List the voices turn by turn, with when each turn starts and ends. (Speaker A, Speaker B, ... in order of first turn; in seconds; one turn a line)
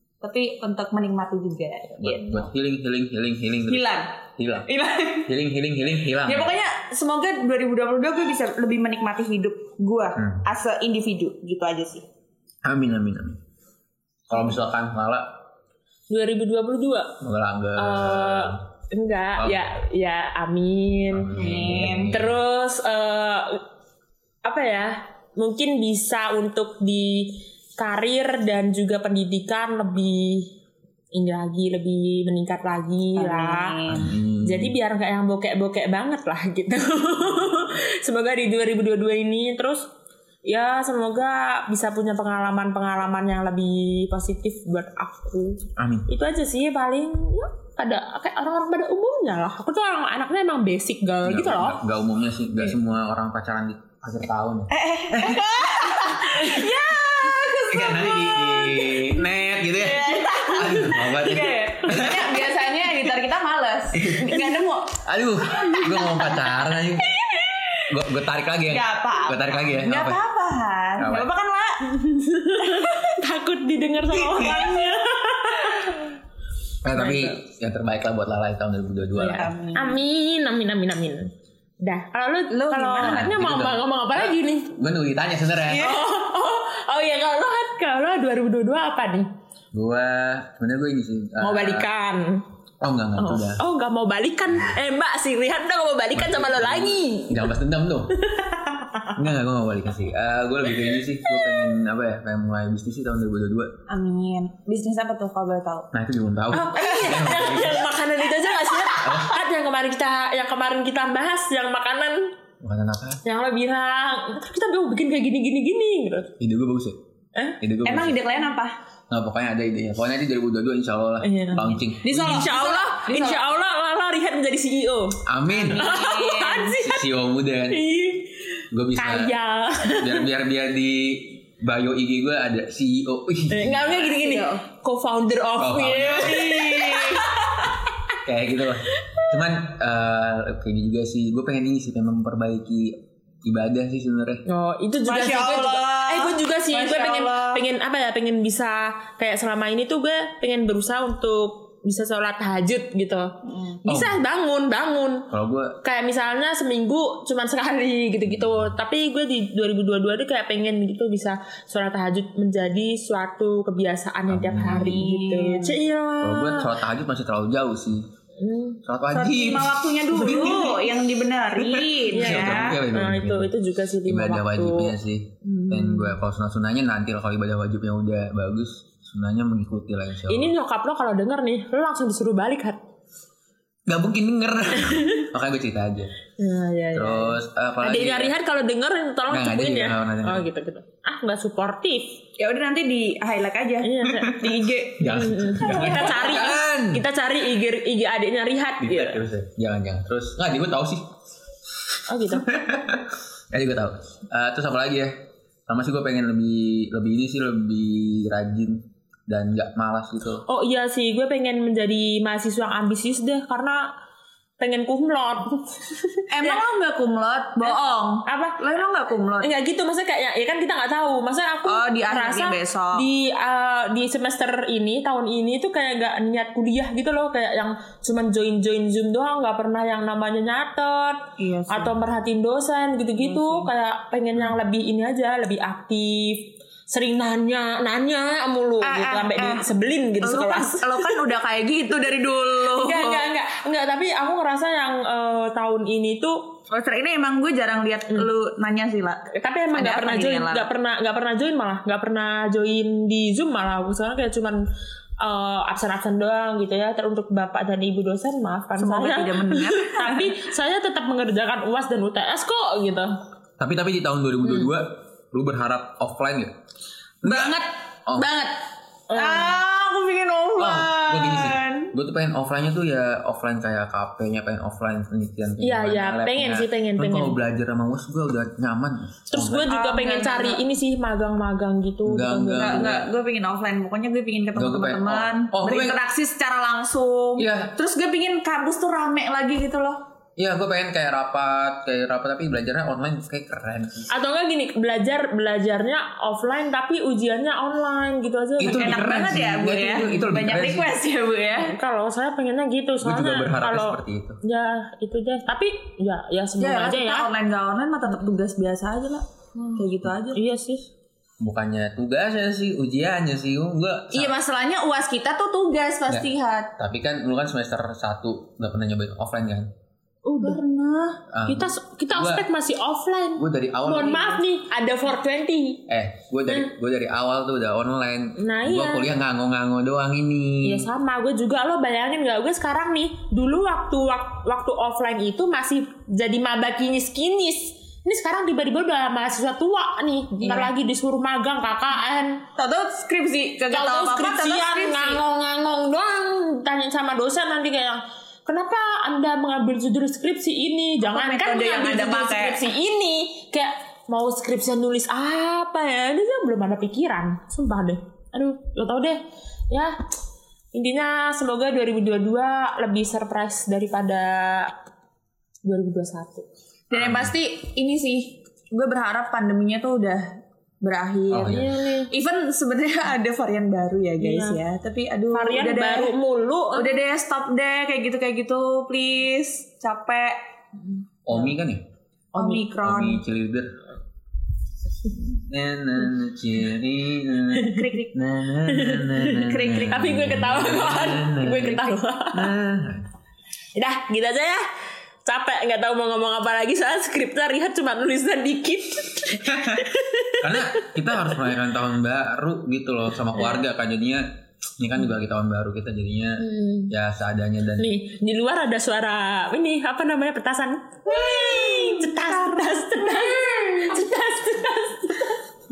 Speaker A: 0.2-2.5
Speaker B: 2.0-4.7
Speaker A: 3.7-5.3
Speaker B: 5.3-6.5
Speaker A: 6.2-12.1
Speaker B: 10.2-10.4
Speaker B: 12.6-13.4
Speaker B: 14.3-15.3
Speaker C: 16.1-17.2
Speaker B: 17.2-18.6
Speaker C: 17.8-21.4
Speaker B: 19.4-19.7
Speaker B: 21.1-22.4
Speaker A: 21.4-22.2
Speaker C: 22.1-23.6
Speaker C: 24.4-30.5
Speaker C: 31.1-39.9
Speaker A: 33.2-34.0
Speaker B: 33.9-34.8
Speaker C: 40.5-51.8
Speaker B: 45.8-46.1
Speaker B: 51.2-55.5
Speaker A: 54.7-59.1
Speaker C: 55.9-57.7
Speaker B: 57.7-62.5
Speaker A: 59.8-65.0
Speaker C: 60.3-61.2
Speaker B: 63.9-64.4
Speaker C: 64.2-64.5
Speaker B: 65.0-67.2
Speaker C: 65.6-66.4
Speaker B: 67.9-70.2
Speaker A: 68.7-71.8
Speaker B: 71.0-71.3
Speaker C: 71.9-76.1
Speaker A: 72.7-73.1
Speaker B: 76.8-79.5
Speaker C: 76.9-77.4
Speaker C: 79.2-84.7
Speaker A: 79.3-80.0
Speaker A: 82.5-83.3
Speaker B: 83.0-86.0
Speaker C: 85.7-89.3
Speaker B: 89.7-91.9
Speaker C: 91.4-92.4
Speaker B: 92.8-93.6
Speaker C: 93.2-97.5
Speaker B: 96.1-98.2
Speaker C: 98.3-99.1
Speaker B: 99.1-103.7
Speaker A: 103.9-105.9
Speaker B: 105.9-107.9
Speaker C: 106.5-112.2
Speaker B: 109.0-109.4
Speaker B: 112.6-113.2
Speaker C: 113.2-116.3
Speaker B: 116.4-117.0
Speaker B: 117.6-118.2
Speaker A: 117.8-118.8
Speaker B: 119.1-122.5
Speaker C: 121.2-125.2
Speaker A: 122.0-123.4
Speaker B: 125.3-125.8
Speaker A: 125.5-126.8
Speaker C: 125.7-127.1
Speaker B: 126.8-127.8
Speaker C: 127.7-128.4
Speaker B: 128.7-134.1
Speaker C: 129.0-130.3
Speaker C: 133.5-137.9
Speaker A: 134.0-134.6
Speaker B: 135.6-136.6
Speaker A: 136.0-137.3
Speaker B: 138.2-144.4
Speaker C: 144.5-153.3
Speaker A: 145.1-147.6
Speaker A: 153.5-153.8
Speaker C: 153.8-155.3
Speaker B: 153.9-154.2
Speaker B: 155.3-155.8
Speaker C: 155.8-166.7
Speaker B: 158.3-158.7
Speaker B: 164.3-165.0
Speaker A: 164.7-165.8
Speaker B: 166.2-168.0
Speaker C: 168.4-168.8
Speaker B: 168.9-171.0
Speaker A: 169.1-172.8
Speaker B: 171.6-173.5
Speaker C: 172.1-176.2
Speaker B: 174.1-180.5
Speaker C: 180.3-182.8
Speaker B: 183.9-186.1
Speaker C: 184.7-185.3
Speaker C: 186.4-192.2
Speaker B: 186.9-188.3
Speaker B: 189.3-190.5
Speaker A: 192.4-195.1
Speaker C: 193.8-199.2
Speaker B: 195.0-197.0
Speaker A: 195.6-196.5
Speaker B: 198.8-201.1
Speaker B: 201.9-205.2
Speaker C: 202.1-202.5
Speaker B: 205.7-210.4
Speaker C: 210.5-213.9
Speaker C: 214.6-216.6
Speaker A: 216.3-219.5
Speaker C: 217.6-218.7
Speaker C: 219.4-241.1
Speaker A: 221.7-223.1
Speaker A: 231.4-231.9
Speaker A: 233.2-233.7
Speaker A: 238.8-239.7
Speaker A: 240.2-243.3
Speaker C: 242.7-246.5
Speaker A: 246.7-250.7
Speaker C: 249.3-254.6
Speaker C: 255.2-263.1
Speaker A: 258.8-260.4
Speaker B: 263.6-266.5
Speaker C: 264.4-264.7
Speaker B: 267.2-268.3
Speaker A: 267.2-271.9
Speaker C: 269.1-269.6
Speaker B: 270.6-279.7
Speaker C: 275.6-277.4
Speaker C: 279.3-282.9
Speaker A: 279.7-280.6
Speaker B: 282.1-283.1
Speaker A: 282.6-290.0
Speaker B: 284.6-286.0
Speaker B: 287.4-287.8
Speaker B: 290.4-294.1
Speaker C: 294.1-299.3
Speaker B: 298.6-300.9
Speaker A: 298.6-301.8
Speaker C: 301.6-307.3
Speaker B: 303.0-304.4
Speaker A: 306.6-310.4
Speaker C: 308.1-308.4
Speaker C: 310.3-310.9
Speaker B: 311.4-314.4
Speaker A: 314.1-316.7
Speaker B: 316.1-319.7
Speaker C: 320.2-320.6
Speaker A: 320.4-321.2
Speaker B: 321.3-322.5
Speaker C: 321.5-325.8
Speaker B: 323.4-324.4
Speaker B: 325.9-330.9
Speaker C: 328.4-329.1
Speaker C: 330.6-342.4
Speaker A: 340.4-340.7
Speaker A: 342.6-345.2
Speaker C: 343.7-359.2
Speaker A: 351.0-352.6
Speaker C: 359.7-359.9
Speaker C: 360.7-364.8
Speaker C: 365.6-366.5
Speaker A: 366.9-370.3
Speaker B: 366.9-367.3
Speaker A: 370.8-376.1
Speaker B: 371.3-371.7
Speaker C: 371.3-372.1
Speaker C: 374.2-374.6
Speaker C: 375.3-376.9
Speaker A: 376.7-380.4
Speaker B: 381.3-381.9
Speaker A: 382.3-383.2
Speaker C: 382.4-382.7
Speaker B: 382.8-383.7
Speaker B: 385.0-393.1
Speaker C: 387.6-387.8
Speaker A: 387.7-388.1
Speaker C: 388.7-392.5
Speaker A: 389.4-389.9
Speaker C: 393.8-394.6
Speaker C: 395.2-401.5
Speaker B: 399.5-399.9
Speaker B: 400.4-404.3
Speaker C: 403.3-403.6
Speaker B: 404.8-407.9
Speaker C: 406.4-406.9
Speaker C: 407.8-415.4
Speaker A: 411.1-413.8